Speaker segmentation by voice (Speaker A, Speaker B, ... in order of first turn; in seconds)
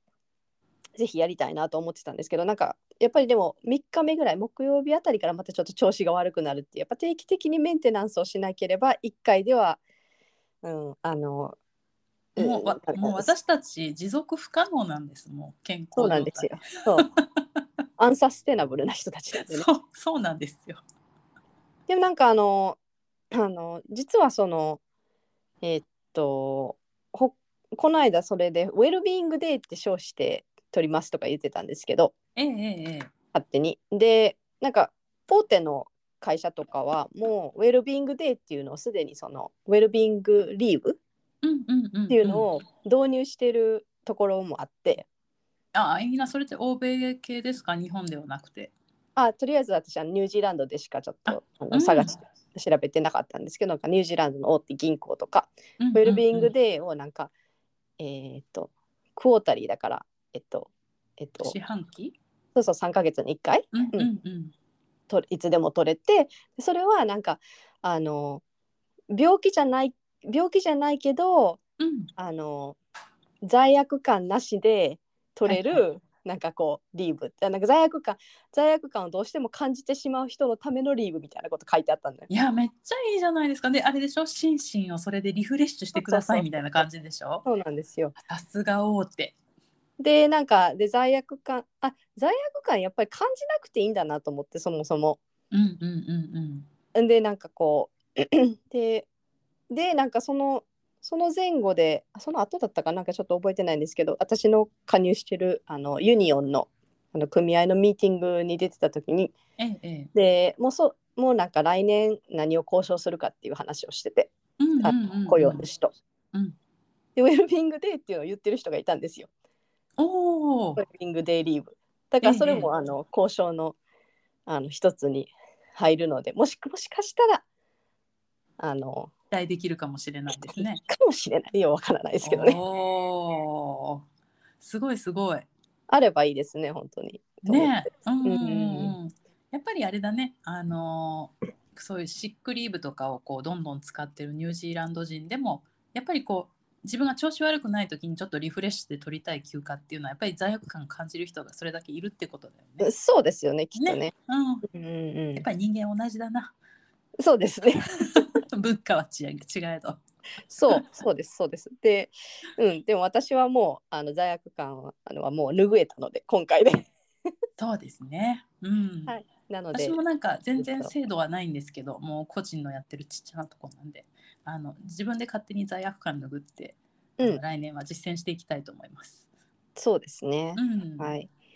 Speaker A: 0.9-9.8, 10.6-11.6, 12.3-13.3, 15.9-17.1, 18.0-19.7, 21.9-22.8, 23.3-24.8, 25.6-32.1, 33.3-41.0, 42.1-45.0, 49.1-57.3, 58.0-61.5, 62.5-64.1, 65.1-68.4, 69.1-71.6, 72.2-72.8, 73.4-82.3, 86.0-86.8, 87.4-88.1, 90.0-95.2, 96.9-99.1, 99.7-109.3, 110.1-114.3, 114.8-115.9, 117.2-119.3, 120.8-123.8, 124.5-127.4, 128.6-129.1, 130.3-132.6, 135.9-137.7, 138.2-138.9, 152.8-154.1, 154.7-155.4, 157.2-157.9, 160.5-166.9, 169.1-170.0, 170.6-170.9, 179.8-181.3
Speaker B: 12.4-17.4, 19.4-20.8, 32.4-33.1, 41.4-42.5, 45.7-48.7, 51.3-52.2, 55.8-56.5, 61.4-62.1, 63.7-64.5, 71.8-72.1, 75.5-75.8, 82.3-87.4, 88.2-89.3, 95.5-96.7, 109.6-110.1, 114.6-115.6, 120.0-120.8, 122.2-122.7, 129.3-130.8, 132.2-134.0, 134.6-135.5, 137.4-152.9, 153.8-154.7, 155.3-156.5, 158.0-160.0, 167.6-169.1, 169.7-179.2, 180.6-181.1